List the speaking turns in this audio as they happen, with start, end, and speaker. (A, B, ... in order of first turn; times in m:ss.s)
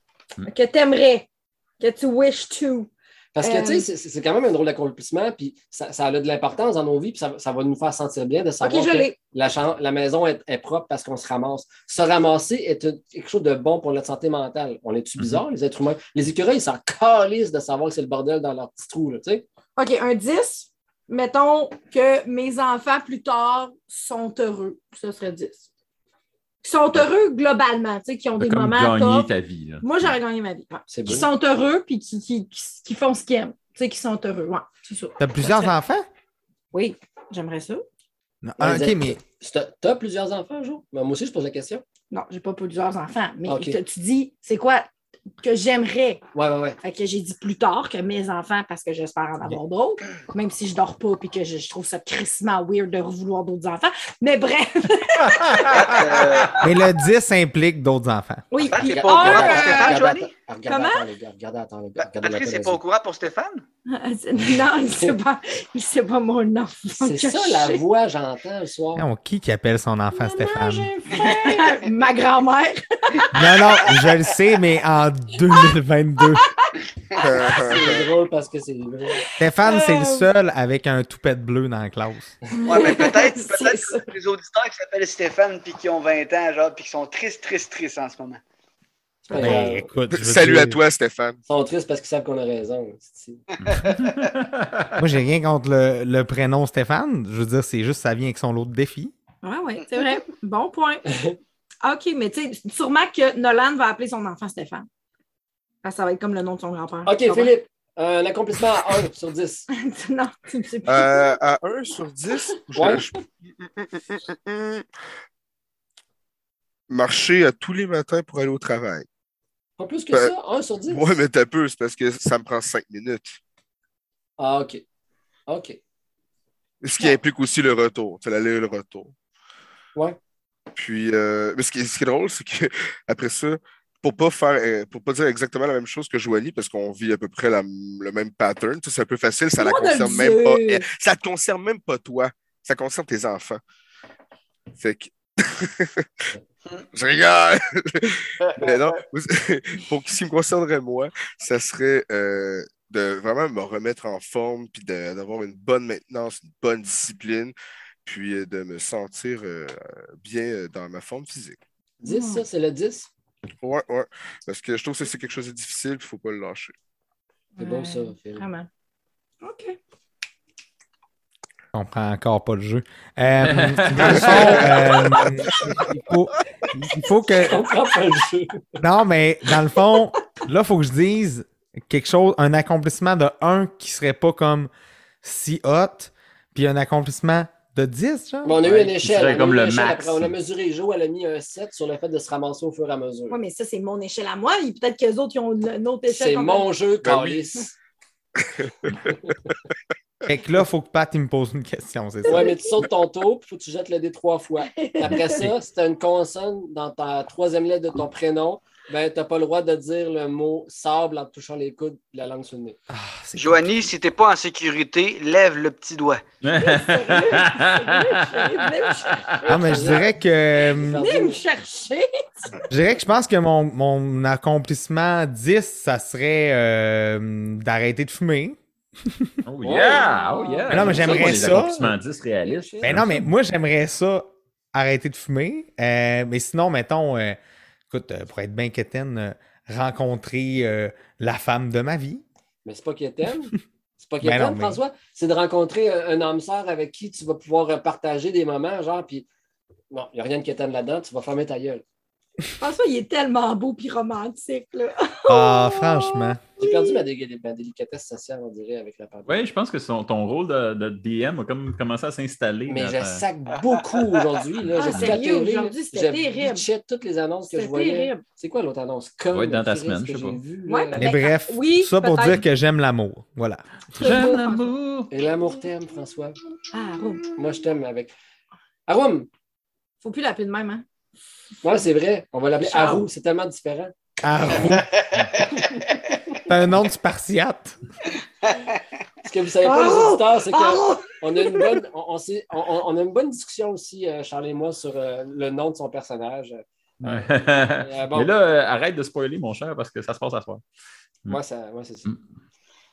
0:00.4-0:01.3 A
0:01.8-0:02.9 A
0:03.3-0:19.4 B
0:03.4-0:03.8 A
0:08.6-0:09.2 A
0:15.2-0:15.4 C
0:19.8-0:25.6 A
0:26.6-0:29.3 A
0:28.4-0:30.1 C
0:29.8-0:35.7 A
0:30.9-0:31.3 B
0:35.2-0:36.0 D
0:36.7-0:37.8 A
0:38.4-0:39.2 D
0:38.6-0:41.8 B
0:42.1-0:44.9 A
0:43.5-0:43.8 B
0:45.4-0:46.2 A
0:46.3-0:46.8 B
0:46.8-0:56.0 A
0:55.7-0:56.7 E
0:56.6-0:58.4 D
0:58.5-1:00.1 A
0:58.7-1:00.3 E
0:58.9-1:02.8 B
1:00.7-1:01.0 A
1:02.0-1:03.6 E
1:03.9-1:07.8 A
1:07.0-1:09.0 B
1:09.0-1:10.9 D
1:10.6-1:13.4 A
1:13.3-1:16.5 D
1:17.2-1:18.1 F
1:17.6-1:19.3 B
1:19.4-1:22.4 D
1:19.6-1:20.3 A
1:22.6-1:28.4 E
1:22.7-1:24.0 A
1:29.3-1:29.9 B
1:29.3-1:29.6 A
1:29.3-1:30.8 D
1:30.1-1:31.4 F
1:31.5-1:33.4 B
1:33.6-1:34.9 C
1:33.7-1:34.0 E
1:35.0-1:39.1 D
1:39.4-1:41.0 A
1:41.8-1:44.9 A
1:45.8-1:47.5 A
1:47.1-1:49.7 B
1:49.7-1:51.3 A
1:50.9-1:53.2 F
1:52.8-1:53.0 B
1:53.8-1:54.8 F
1:56.9-1:59.0 F
1:59.8-2:01.2 B
2:00.9-2:03.4 F
2:04.4-2:04.8 B
2:05.5-2:05.8 B
2:06.8-2:09.1 F
2:10.8-2:23.6 F
2:19.6-2:20.8 A
2:24.8-2:26.2 F
2:26.9-2:41.6 F
2:28.4-2:29.0 E
2:42.0-2:43.1 B
2:42.0-2:42.4 A
2:43.6-2:46.7 F
2:47.6-2:48.7 A
2:47.6-2:48.5 B
2:49.4-2:49.8 A
2:51.7-2:57.6 D
2:53.4-2:54.7 C
2:54.0-2:56.0 B
2:57.4-2:58.8 B
2:58.8-3:04.7 D
3:05.2-3:08.6 D
3:08.4-3:13.4 B
3:08.6-3:10.3 C
3:13.3-3:16.7 A
3:16.1-3:17.8 B
3:17.0-3:17.4 F
3:18.6-3:19.0 F
3:19.0-3:19.3 B
3:20.3-3:22.6 D
3:22.2-3:22.8 A
3:22.3-3:32.8 B
3:24.7-3:25.4 A
3:32.9-3:33.7 D
3:33.3-3:36.2 E
3:36.4-3:39.2 C
3:36.6-3:39.9 A
3:39.4-3:41.4 B
3:39.5-3:41.0 D
3:41.0-3:42.5 A
3:42.7-3:49.3 D
3:49.5-3:53.1 C
3:49.6-3:50.1 B
3:50.0-3:50.6 A
3:50.7-3:53.2 B
3:50.7-3:51.9 D
3:52.8-4:02.2 D
4:02.6-4:09.3 B
4:04.2-4:04.8 D
4:09.9-4:11.8 B
4:12.6-4:17.0 A
4:15.3-4:16.4 D
4:16.6-4:19.4 B
4:19.3-4:23.2 C
4:22.7-4:31.0 B
4:24.8-4:26.6 A
4:27.5-4:28.2 A
4:29.3-4:30.4 C
4:30.6-4:32.4 A
4:31.0-4:33.6 D
4:33.9-4:34.7 A
4:34.0-4:35.1 C
4:35.1-4:36.4 B
4:36.7-4:37.2 A
4:37.4-4:38.1 B
4:38.9-4:39.3 B
4:40.0-4:40.8 A
4:41.6-4:43.9 B
4:42.6-4:43.0 A
4:44.2-4:45.0 D
4:44.6-4:46.1 E
4:46.5-4:47.8 D
4:49.3-4:58.3 B
4:49.6-4:51.7 A
4:57.0-5:00.6 C
5:01.3-5:02.1 B